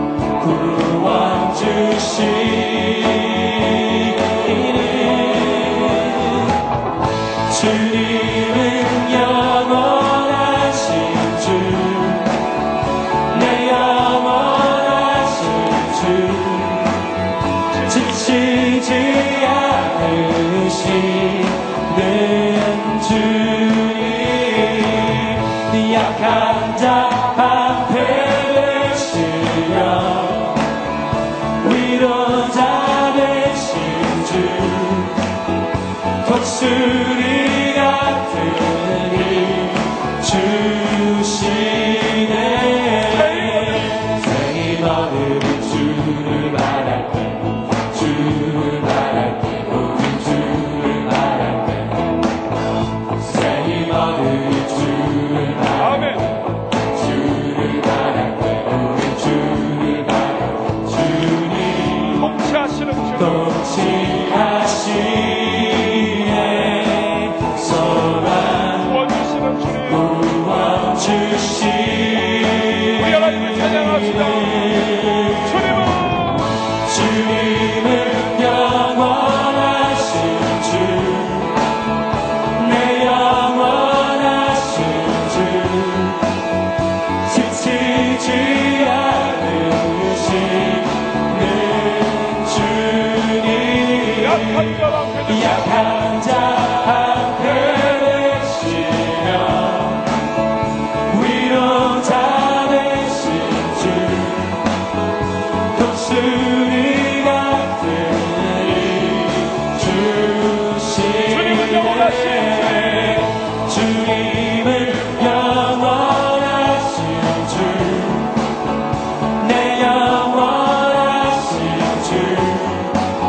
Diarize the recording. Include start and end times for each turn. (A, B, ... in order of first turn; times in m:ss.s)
0:00.4-0:06.6 A
0:07.5-0:12.4 A
0:13.3-0:17.1 A
0:17.8-0:18.0 B
0:17.8-0:30.6 A
0:31.6-0:35.2 A
0:36.2-0:52.1 A
0:43.1-0:44.0 B
0:53.2-0:55.9 A
0:55.8-0:56.4 B
0:57.0-1:02.2 A
1:02.2-1:03.6 B
1:03.2-1:08.9 A
1:08.8-1:10.3 B
1:09.9-1:15.5 A
1:13.0-1:14.8 B
1:15.4-1:16.5 B
1:16.8-1:21.6 A
1:22.5-1:26.3 A
1:27.2-1:40.1 A
1:34.2-1:35.8 B
1:41.1-1:44.6 A
1:45.7-1:58.3 A
1:51.3-1:53.2 B
1:59.4-2:03.0 A